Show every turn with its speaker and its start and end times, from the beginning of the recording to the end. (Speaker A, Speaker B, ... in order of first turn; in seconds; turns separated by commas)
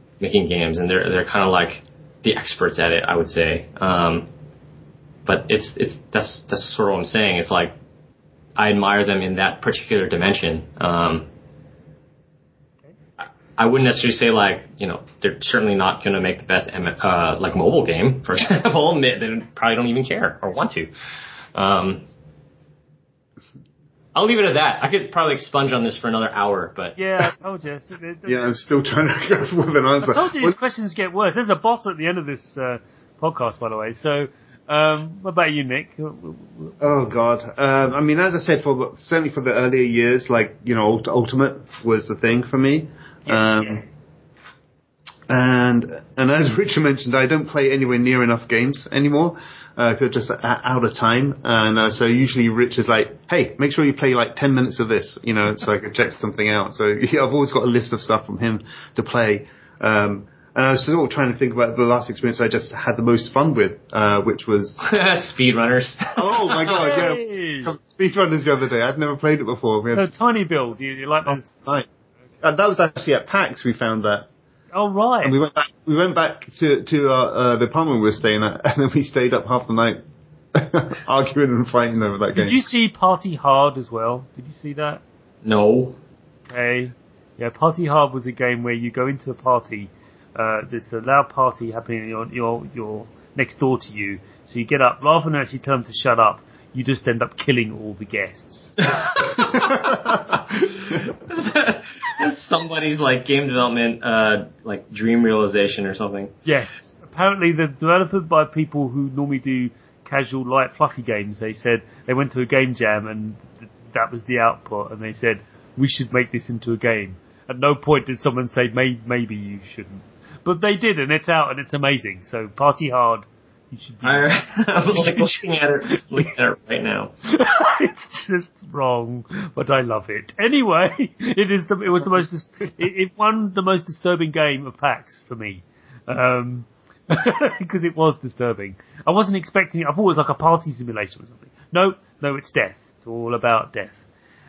Speaker A: 0.2-4.3, Speaker A: 5.3-7.7, Speaker A: 8.6-11.3, Speaker A: 13.6-20.9, Speaker A: 21.5-22.0, Speaker A: 24.1-27.0, Speaker B: 27.0-28.5, Speaker C: 28.3-30.6, Speaker B: 30.0-36.8, Speaker C: 36.8-43.8, Speaker C: 45.3-64.8, Speaker A: 64.8-67.1, Speaker C: 66.2-70.1, Speaker B: 66.7-67.7, Speaker B: 69.9-71.5, Speaker C: 71.3-71.9, Speaker C: 72.4-74.3, Speaker B: 74.7-75.4, Speaker C: 75.2-80.0, Speaker C: 80.5-82.6, Speaker B: 82.4-85.0, Speaker A: 85.4-86.0, Speaker B: 86.5-98.8, Speaker A: 98.9-100.2, Speaker B: 99.3-100.2, Speaker A: 100.7-106.3, Speaker B: 106.5-124.4, Speaker A: 124.0-127.1, Speaker B: 124.9-125.3, Speaker B: 127.3-144.0